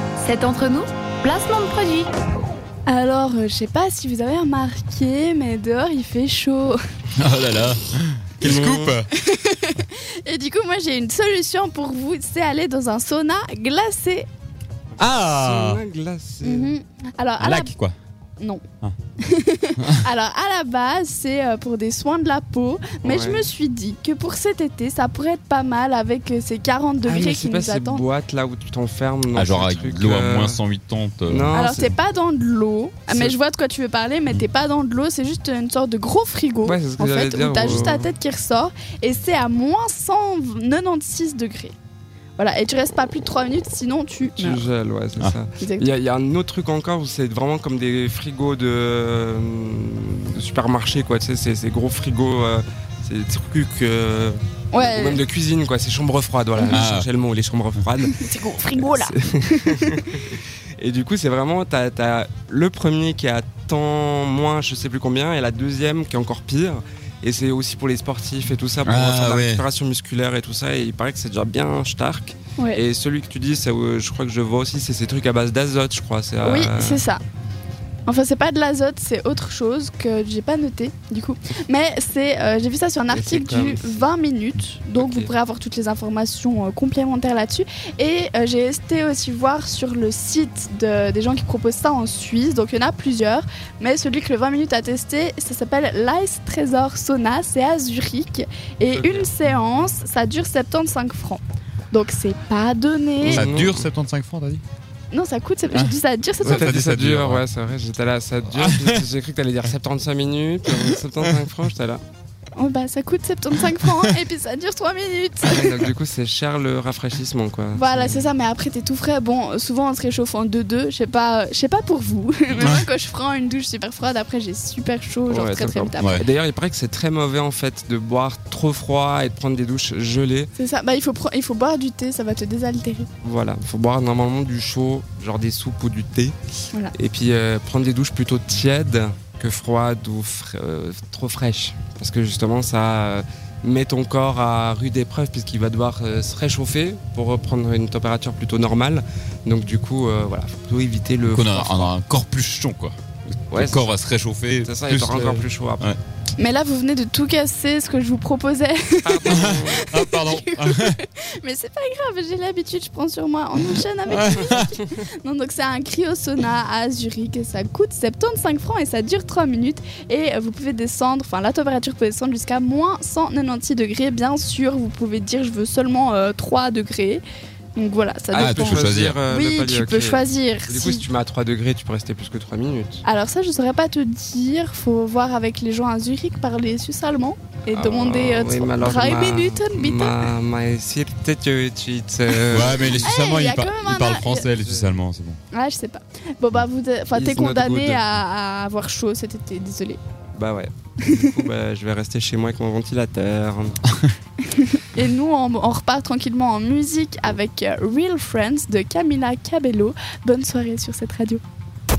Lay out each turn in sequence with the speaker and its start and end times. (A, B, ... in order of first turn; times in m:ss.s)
0:00.2-0:02.1 A
0:02.9-0:06.8 B
0:07.2-0:09.1 C
0:08.4-0:09.0 D
0:09.1-0:14.3 B
0:15.0-0:15.8 C
0:15.2-0:16.7 D
0:16.4-0:17.7 B
0:17.4-0:17.9 C
0:18.4-0:18.6 B
0:19.2-0:28.0 B
0:23.0-0:23.5 D
0:27.0-0:30.6 D
0:29.3-0:31.4 C
0:31.3-0:31.9 D
0:31.5-0:41.7 B
0:33.1-0:33.4 D
0:36.6-0:38.2 D
0:42.4-0:44.6 B
0:44.4-0:58.1 D
0:45.6-0:45.8 B
0:54.7-0:55.2 B
0:56.6-0:56.9 B
0:56.7-0:57.0 C
0:58.0-1:00.1 B
0:58.8-1:17.0 D
1:09.0-1:09.5 C
1:16.4-1:17.2 B
1:18.0-1:43.5 B
1:23.1-1:24.0 D
1:25.0-1:25.3 D
1:38.9-1:39.6 D
1:43.2-1:43.9 D
1:43.3-1:44.6 C
1:45.1-1:46.7 B
1:45.7-1:47.4 C
1:46.4-1:52.0 D
1:48.6-1:49.0 C
1:52.5-1:55.7 B
1:55.4-1:58.3 D
1:57.7-2:06.2 B
2:05.3-2:10.5 D
2:10.6-2:13.1 B
2:13.2-2:16.3 D
2:16.9-2:31.9 D
2:31.3-2:33.0 C
2:33.5-2:33.9 D
2:33.5-2:36.0 C
2:34.6-2:35.9 D
2:36.4-2:57.2 B
2:39.0-2:39.9 D
2:39.3-2:41.0 C
2:44.1-2:44.7 C
2:57.8-3:01.0 B
2:58.3-3:03.0 D
2:58.4-2:59.2 C
3:03.0-3:10.2 B
3:07.7-3:13.1 D
3:12.5-3:15.4 C
3:13.0-3:14.5 B
3:14.4-3:14.9 D
3:15.5-3:20.0 B
3:17.1-3:18.0 D
3:20.3-3:23.8 D
3:24.5-3:31.4 B